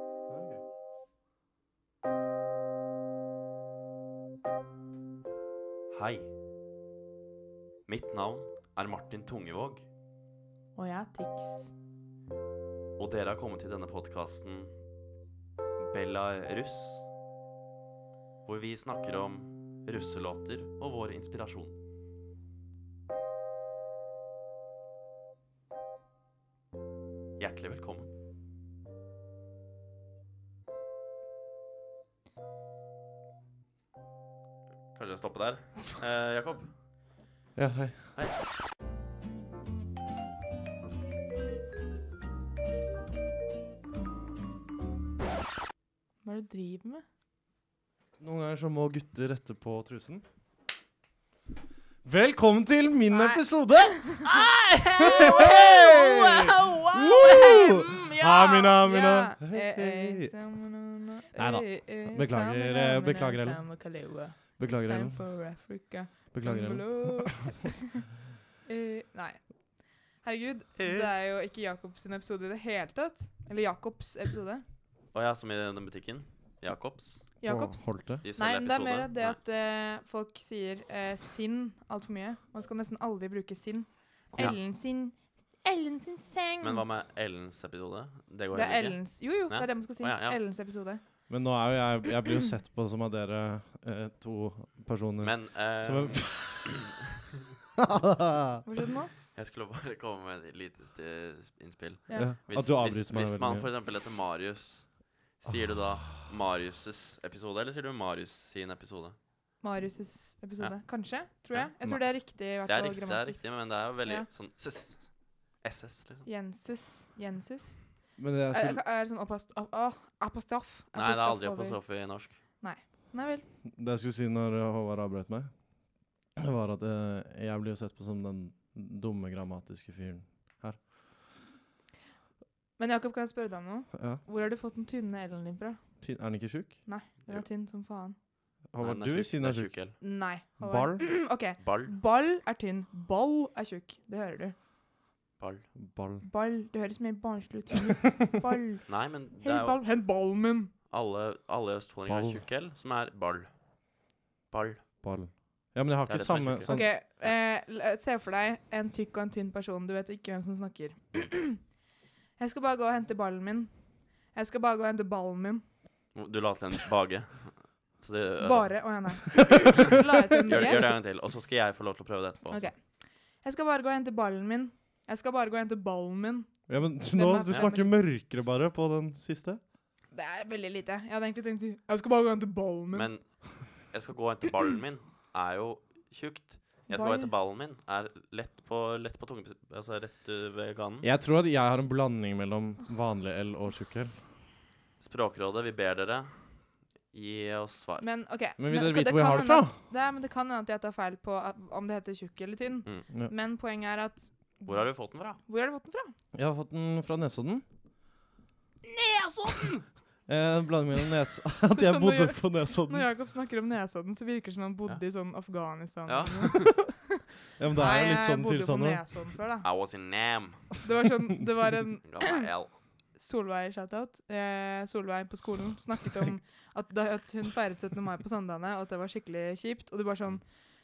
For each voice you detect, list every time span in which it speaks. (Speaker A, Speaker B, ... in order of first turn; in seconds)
Speaker A: 0.3-0.6, 37.5-38.0, 48.2-50.2, 52.0-54.3, 54.9-60.3, 61.3-63.6, 64.6-65.3, 66.3-67.5, 77.4-78.2, 91.3-97.0, 97.8-98.6, 102.1-103.7, 118.2-118.8, 123.7-125.5, 126.3-130.8, 133.9-134.2, 136.0-136.8, 138.7-139.7, 140.6-141.1, 145.8-146.2, 152.1-152.4, 155.0-156.9, 170.4-170.9, 176.7-179.6, 191.0-194.2, 198.6-199.8, 206.3-207.6, 210.3-213.1, 217.6-219.0
Speaker B: 5.9-6.3, 7.9-9.8, 13.0-14.7, 15.8-17.0, 18.4-21.8, 27.4-28.1, 34.9-36.7, 54.2-58.8, 75.1-77.3, 78.2-79.4, 86.6-90.4, 95.2-96.7, 99.3-109.2, 112.7-116.3, 120.9-122.4, 138.8-140.0, 141.6-141.9, 145.4-145.7, 148.9-149.8, 150.9-153.5, 154.5-154.8, 156.1-157.3, 166.1-168.9, 170.4-172.7, 182.9-191.1, 195.0-198.0, 204.7-205.4, 208.8-209.8, 216.1-216.8, 219.6-220.7, 222.0-222.8
Speaker C: 10.8-11.7, 46.2-47.0, 53.1-54.3, 58.8-68.0, 68.6-69.4, 70.2-74.6, 77.4-86.8, 88.5-91.0, 98.6-99.1, 109.6-113.4, 116.2-117.8, 118.5-121.8, 122.6-123.5, 132.8-135.8, 136.8-138.2, 140.0-144.5, 146.2-150.7, 156.7-161.6, 162.4-163.7, 164.3-165.6, 168.4-170.9, 172.5-176.5, 177.1-177.9, 180.1-183.1, 186.9-187.3, 198.0-204.8, 205.4-206.1, 211.7-217.0, 217.8-219.7, 220.8-222.5, 223.2-230.4